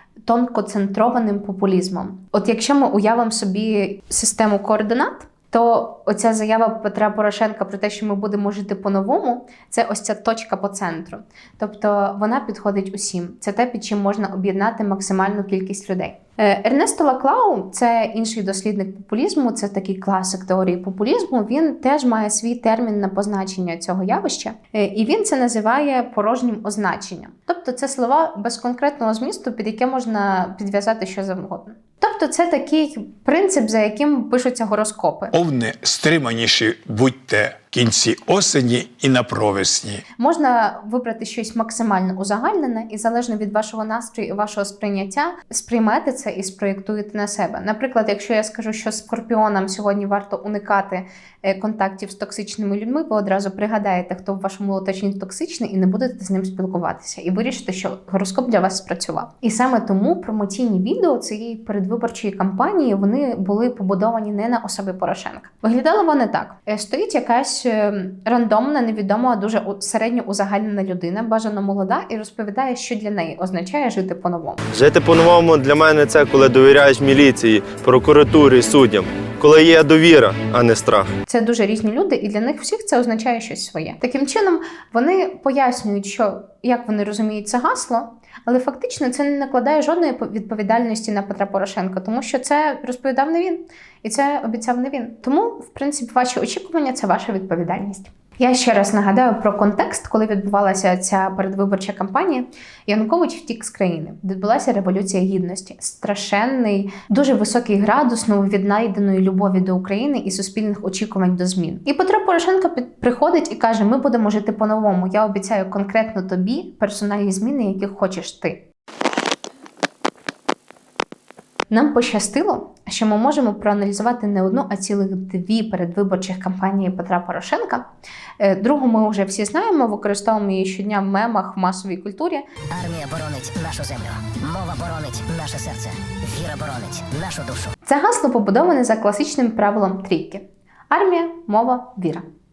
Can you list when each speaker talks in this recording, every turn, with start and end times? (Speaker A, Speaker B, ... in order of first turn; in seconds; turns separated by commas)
Speaker A: 0.2-35.3, Speaker B: 35.3-40.0, Speaker A: 40.2-74.6, Speaker C: 74.7-81.1, Speaker A: 81.3-118.6, Speaker A: 121.7-127.8, Speaker A: 128.4-132.4, Speaker D: 132.7-137.7, Speaker A: 137.8-142.2